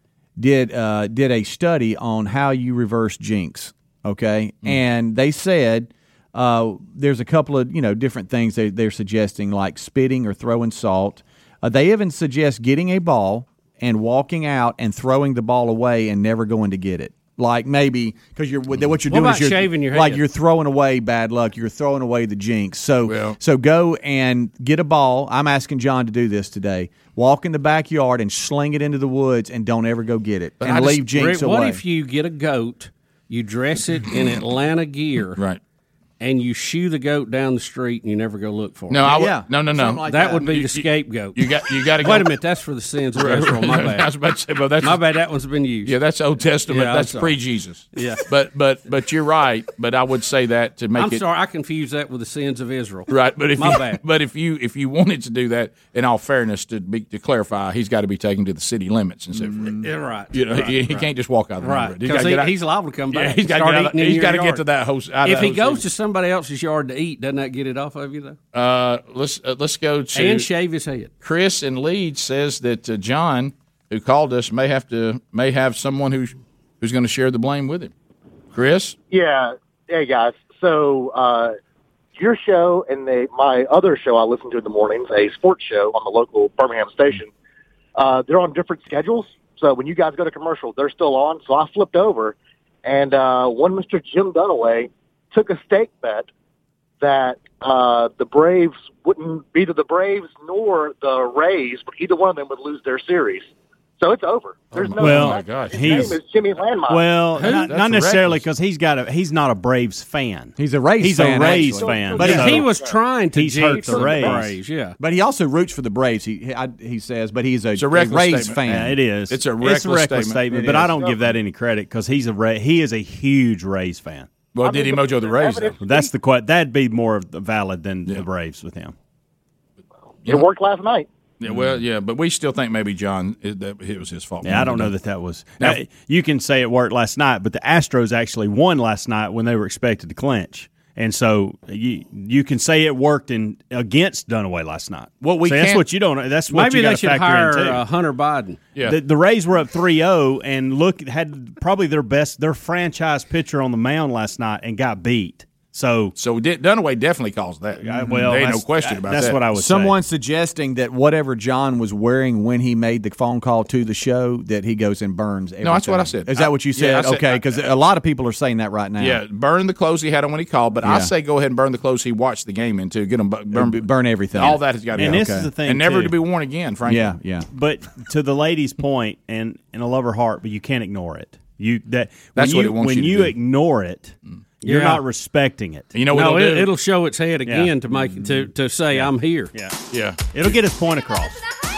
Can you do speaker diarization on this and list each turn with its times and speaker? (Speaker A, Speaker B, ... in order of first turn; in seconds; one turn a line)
Speaker A: 0.4-31.8
Speaker B: 19.1-20.2
Speaker C: 23.1-23.4
Speaker C: 30.6-31.0
Speaker B: 30.7-35.4
Speaker B: 36.2-39.1
Speaker C: 38.9-42.3
Speaker A: 39.0-40.5
Speaker B: 40.0-41.4
Speaker B: 42.0-44.1
Speaker C: 43.1-45.0
Speaker B: 44.8-45.9
Speaker C: 45.8-51.2
Speaker B: 46.7-47.4
Speaker B: 47.9-48.2
Speaker B: 51.0-54.0
Speaker C: 53.1-59.8
Speaker A: 59.3-59.8
Speaker B: 59.8-61.1
Speaker C: 60.3-62.5
Speaker B: 61.6-64.6
Speaker C: 63.1-65.8
Speaker B: 65.2-68.4
Speaker C: 68.5-70.5
Speaker B: 70.1-71.1
Speaker C: 71.2-77.9
Speaker C: 78.5-79.0
Speaker D: 79.1-81.5
Speaker D: 82.2-87.3
Speaker D: 88.0-96.3
Speaker D: 97.0-103.5
Speaker D: 104.0-107.1
Speaker C: 104.7-106.1
Speaker E: 105.0-106.2
Speaker E: 106.9-112.7
Speaker B: 107.3-107.7
Speaker C: 107.5-108.4
Speaker A: 110.6-112.6
Speaker D: 111.4-112.9
Speaker B: 112.2-115.0
Speaker E: 113.3-114.5
Speaker A: 115.0-119.0
Speaker C: 117.8-118.6
Speaker E: 118.7-124.3
Speaker C: 119.3-120.7
Speaker A: 120.5-121.0
Speaker D: 120.9-121.2
Speaker C: 124.5-125.8
Speaker D: 124.6-126.1
Speaker E: 125.8-128.9
Speaker D: 130.2-131.1
Speaker C: 131.4-134.9
Speaker E: 134.4-147.8
Speaker C: 145.2-145.8
Speaker B: 146.5-148.6
Speaker E: 148.8-156.1
Speaker C: 156.2-159.4
Speaker E: 157.8-159.9
Speaker A: 159.5-169.2
Speaker C: 165.6-167.6
Speaker C: 169.0-177.1
Speaker A: 170.8-171.1
Speaker A: 173.5-175.5
Speaker E: 174.9-176.1
Speaker A: 176.8-177.4
Speaker E: 177.5-185.9
Speaker C: 182.3-183.3
Speaker B: 184.6-185.0
Speaker C: 185.9-186.7
Speaker B: 186.1-189.5
Speaker E: 187.4-189.8
Speaker C: 189.9-190.5
Speaker E: 190.3-191.4